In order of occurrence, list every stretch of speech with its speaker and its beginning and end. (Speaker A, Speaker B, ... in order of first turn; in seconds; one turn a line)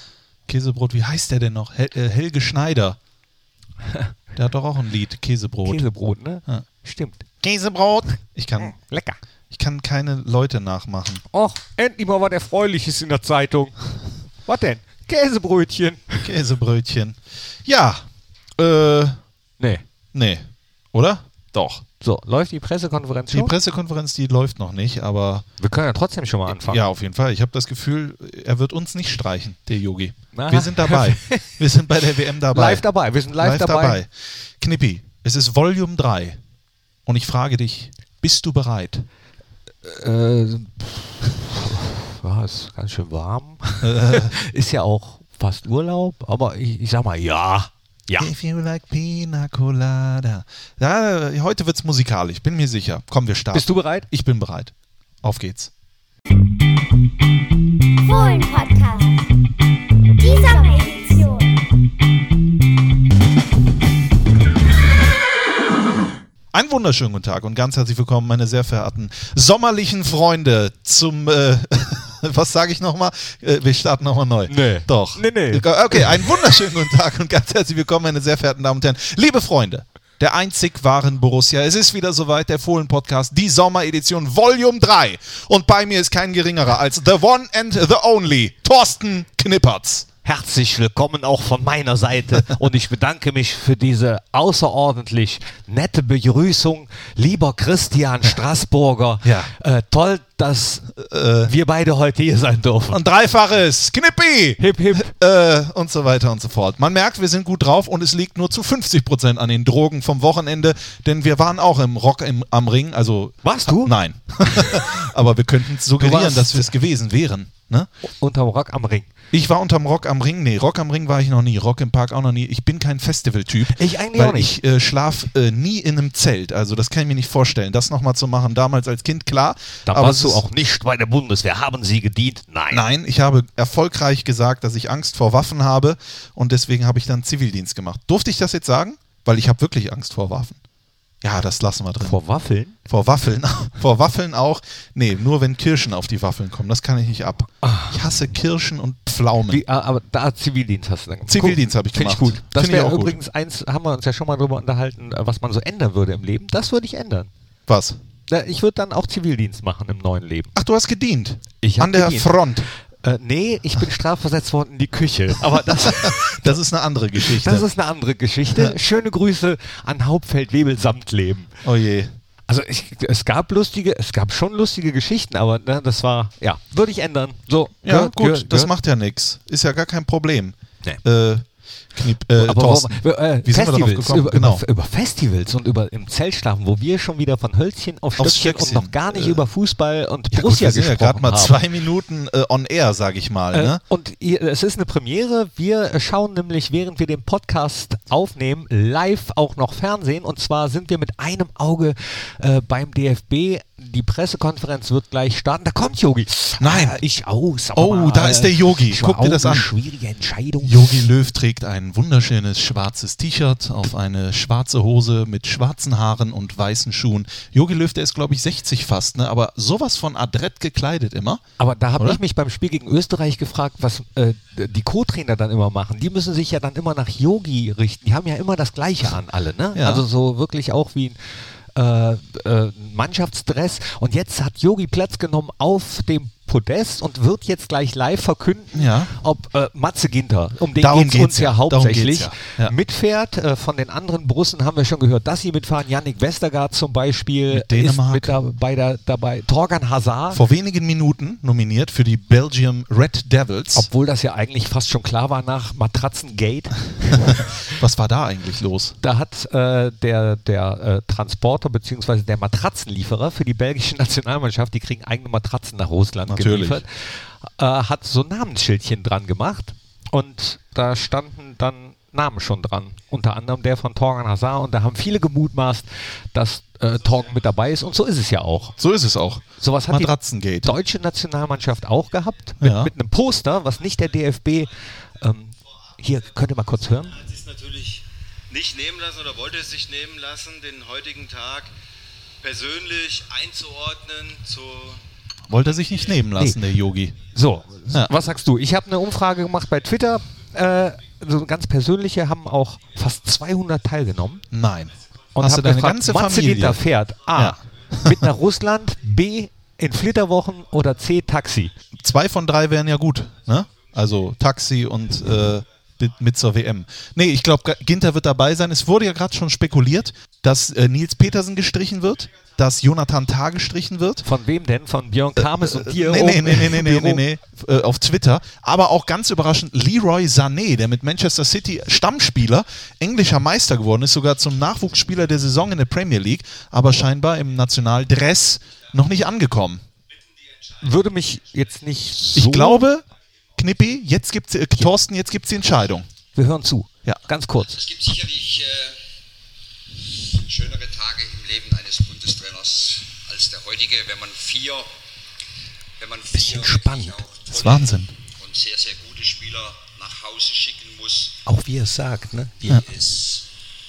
Speaker A: 0.5-3.0
Speaker A: 4.4-5.8
Speaker B: 5.6-7.2
Speaker A: 7.4-8.8
Speaker B: 8.6-9.2
Speaker A: 9.5-11.2
Speaker B: 11.3-13.8
Speaker B: 14.5-16.3
Speaker A: 16.2-18.1
Speaker A: 18.6-19.2
Speaker A: 20.1-21.8
Speaker B: 22.0-23.5
Speaker A: 23.3-25.4
Speaker B: 25.6-26.8
Speaker A: 26.5-36.4
Speaker B: 30.3-31.5
Speaker B: 32.4-34.0
Speaker A: 37.1-39.1
Speaker B: 39.8-48.3
Speaker A: 43.8-44.4
Speaker A: 48.2-54.7
Speaker B: 53.5-54.1
Speaker A: 55.2-55.7
Speaker C: 58.0-59.3
Speaker C: 60.2-61.6
Speaker A: 66.5-90.1
Speaker B: 74.5-76.2
Speaker B: 90.2-100.9
Speaker A: 99.2-99.5
Speaker A: 101.0-101.5
Speaker B: 101.5-103.0
Speaker A: 102.9-117.9
Speaker B: 104.6-105.1
Speaker B: 113.4-113.9
Speaker B: 114.5-114.9
Speaker B: 116.0-116.7
Speaker B: 118.2-119.1
Speaker A: 119.3-130.4
Speaker B: 123.7-124.6
Speaker B: 129.9-132.8
Speaker A: 132.7-140.6
Speaker A: 141.2-142.2
Speaker B: 142.0-142.8
Speaker A: 142.9-149.6
Speaker B: 147.6-148.0
Speaker B: 149.5-157.3
Speaker A: 151.3-153.2
Speaker A: 157.7-158.0
Speaker B: 158.3-160.5
Speaker A: 160.6-162.7
Speaker B: 161.6-162.4
Speaker B: 163.0-166.5
Speaker A: 165.7-167.7
Speaker B: 167.2-171.6
Speaker A: 171.6-172.1
Speaker B: 172.5-178.7
Speaker A: 177.8-184.6
Speaker B: 182.3-191.6
Speaker A: 188.2-189.4
Speaker A: 190.3-193.8
Speaker B: 193.5-211.0
Speaker A: 206.6-207.0
Speaker A: 207.8-209.7
Speaker A: 210.6-221.4
Speaker B: 221.6-231.2
Speaker A: 229.8-230.1
Speaker B: 231.8-250.4
Speaker A: 238.7-239.1
Speaker A: 240.8-242.7
Speaker A: 247.5-248.3
Speaker A: 250.3-253.9
Speaker B: 253.7-257.7
Speaker A: 257.3-259.0
Speaker B: 259.0-278.8
Speaker A: 266.3-266.8
Speaker A: 278.8-280.7
Speaker B: 279.6-287.2
Speaker A: 282.6-282.9
Speaker D: 287.1-291.7
Speaker D: 292.4-295.0
Speaker A: 295.5-297.2
Speaker B: 297.3-304.5
Speaker A: 304.5-306.8
Speaker B: 305.4-311.7
Speaker A: 307.3-308.3
Speaker A: 311.9-324.2
Speaker B: 324.2-327.2
Speaker A: 325.4-339.9
Speaker B: 340.8-342.9
Speaker A: 342.3-343.1
Speaker A: 343.6-346.1
Speaker B: 346.3-347.8
Speaker E: 347.7-349.0
Speaker E: 350.2-354.9
Speaker E: 356.0-361.4
Speaker B: 356.3-357.2
Speaker A: 357.5-358.1
Speaker B: 361.5-362.9
Speaker E: 362.7-363.5